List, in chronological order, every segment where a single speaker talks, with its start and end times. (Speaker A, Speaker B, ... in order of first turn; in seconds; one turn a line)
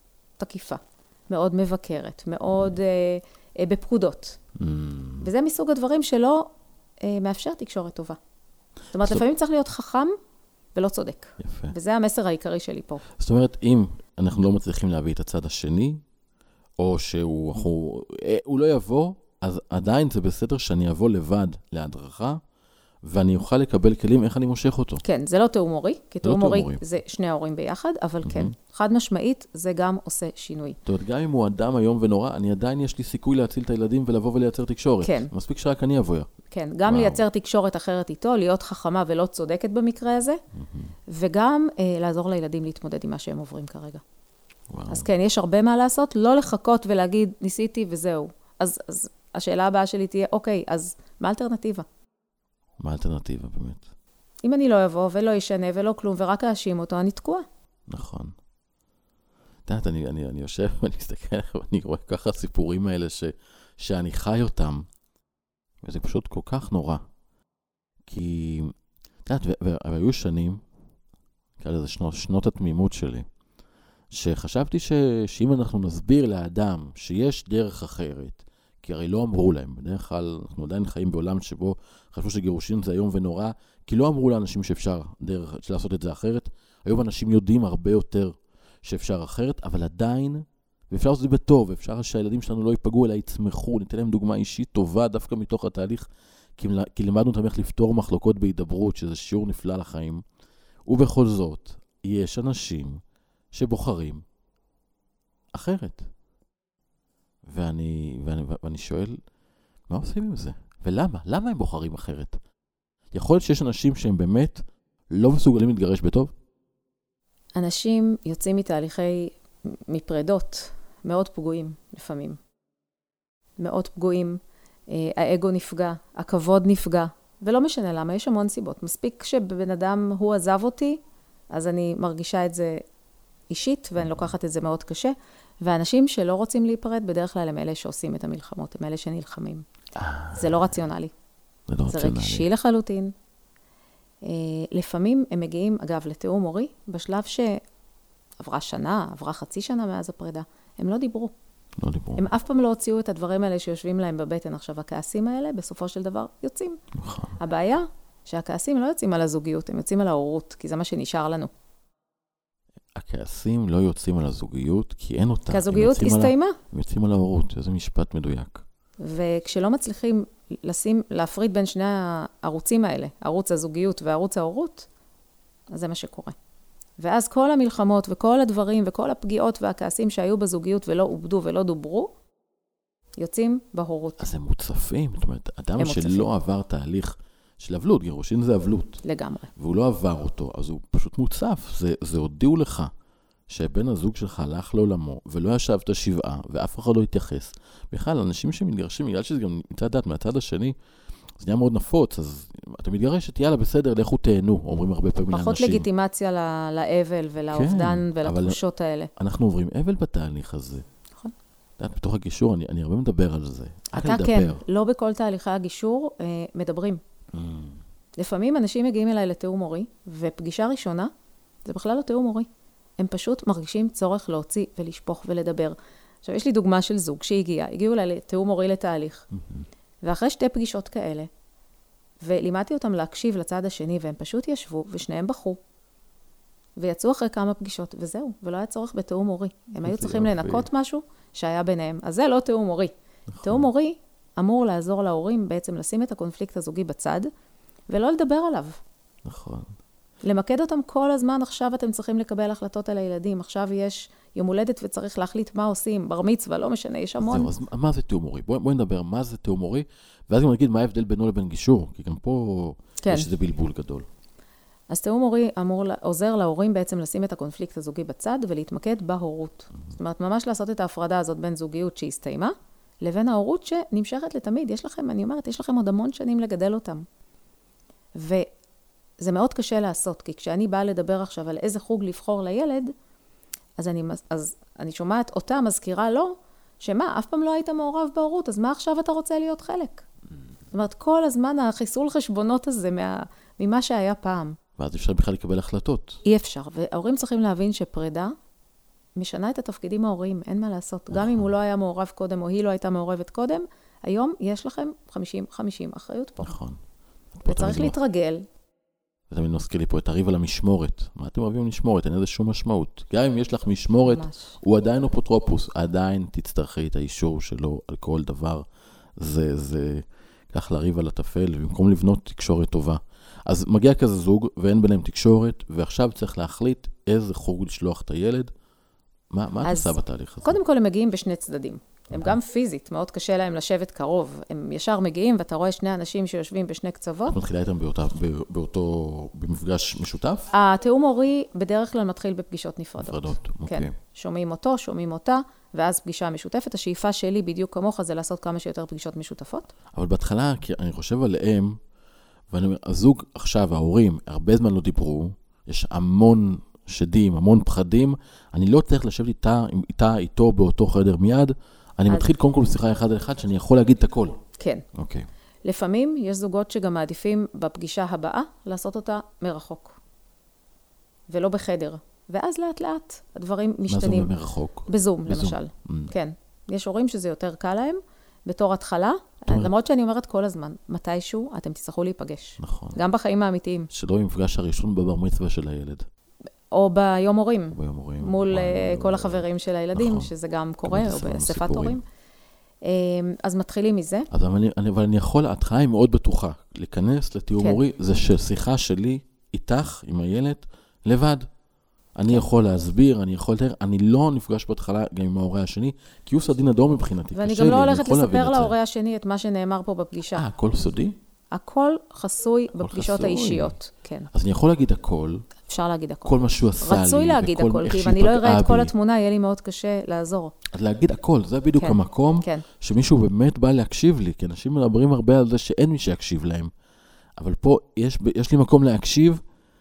Speaker A: 0.4-4.4
Speaker B: 4.6-5.3
Speaker A: 5.2-6.5
Speaker A: 7.0-8.2
Speaker A: 8.9-10.2
Speaker A: 10.8-13.0
Speaker B: 11.4-11.8
Speaker B: 13.2-16.0
Speaker B: 16.8-22.4
Speaker B: 23.0-25.0
Speaker A: 25.0-30.8
Speaker B: 26.2-26.8
Speaker B: 28.2-28.5
Speaker B: 30.9-36.3
Speaker A: 35.0-35.3
Speaker A: 36.5-40.4
Speaker B: 36.9-37.2
Speaker B: 40.5-40.9
Speaker A: 41.1-44.0
Speaker B: 44.7-45.1
Speaker A: 44.9-51.9
Speaker B: 52.8-53.9
Speaker A: 54.4-57.5
Speaker B: 57.9-58.3
Speaker B: 59.7-64.9
Speaker B: 65.8-67.0
Speaker B: 68.1-68.7
Speaker B: 69.3-70.6
Speaker B: 71.6-73.3
Speaker B: 74.1-100.2
Speaker B: 100.9-104.2
Speaker B: 105.5-106.1
Speaker B: 107.5-109.2
Speaker B: 109.9-112.4
Speaker B: 113.1-116.3
Speaker A: 117.6-122.4
Speaker A: 123.6-131.0
Speaker A: 131.5-132.8
Speaker A: 133.5-139.6
Speaker B: 134.0-134.3
Speaker B: 140.0-140.7
Speaker A: 140.3-141.1
Speaker B: 141.7-142.5
Speaker A: 141.9-143.1
Speaker A: 144.2-147.6
Speaker A: 148.4-151.3
Speaker B: 151.8-152.3
Speaker A: 152.2-156.8
Speaker B: 156.9-157.4
Speaker A: 157.4-161.5
Speaker B: 162.9-168.6
Speaker A: 165.5-166.6
Speaker A: 169.0-174.9
Speaker A: 175.7-176.3
Speaker A: 177.0-182.1
Speaker A: 183.2-184.3
Speaker B: 184.2-189.0
Speaker A: 185.8-186.3
Speaker A: 189.0-189.5
Speaker B: 189.6-192.9
Speaker B: 193.5-200.8
Speaker B: 201.4-205.9
Speaker A: 205.3-209.1
Speaker B: 207.5-208.6
Speaker B: 209.2-210.8
Speaker B: 211.8-214.6
Speaker A: 213.9-217.0
Speaker B: 217.3-217.8
Speaker A: 218.2-221.1
Speaker A: 221.7-222.5
Speaker A: 223.0-229.3
Speaker B: 229.3-229.7
Speaker A: 230.0-231.3
Speaker A: 232.2-235.6
Speaker A: 236.8-242.9
Speaker B: 239.8-240.7
Speaker B: 243.3-243.7
Speaker A: 243.4-247.3
Speaker A: 247.9-248.8
Speaker B: 249.2-249.7
Speaker A: 250.2-257.5
Speaker B: 257.2-264.1
Speaker A: 263.0-263.3
Speaker A: 264.9-277.1
Speaker A: 278.2-278.5
Speaker A: 279.2-282.9
Speaker A: 283.8-290.1
Speaker A: 290.7-294.6
Speaker B: 294.8-296.2
Speaker A: 296.2-298.3
Speaker A: 299.2-306.6
Speaker B: 301.1-301.5
Speaker B: 306.4-306.8
Speaker B: 307.3-308.0
Speaker A: 307.4-308.4
Speaker B: 309.3-318.7
Speaker A: 314.1-314.6
Speaker B: 319.2-328.5
Speaker B: 329.3-330.6
Speaker A: 329.6-337.4
Speaker B: 332.1-332.4
Speaker B: 337.3-340.5
Speaker A: 340.5-349.7
Speaker B: 343.0-343.9
Speaker B: 349.9-351.8
Speaker B: 352.5-364.4
Speaker A: 364.6-364.9
Speaker B: 364.9-365.3
Speaker A: 365.7-370.0
Speaker A: 371.3-374.3
Speaker B: 373.9-376.1
Speaker A: 374.9-383.9
Speaker B: 382.6-383.0
Speaker B: 383.9-386.1
Speaker A: 386.7-392.0
Speaker B: 387.7-390.3
Speaker B: 390.9-392.0
Speaker A: 392.9-394.3
Speaker B: 394.3-401.5
Speaker B: 402.2-408.8
Speaker A: 407.3-410.5
Speaker B: 410.3-411.2
Speaker A: 411.5-414.3
Speaker B: 412.8-413.8
Speaker B: 414.3-415.5
Speaker A: 415.7-420.5
Speaker B: 416.2-418.9
Speaker B: 420.7-426.7
Speaker A: 421.8-422.6
Speaker B: 427.4-429.4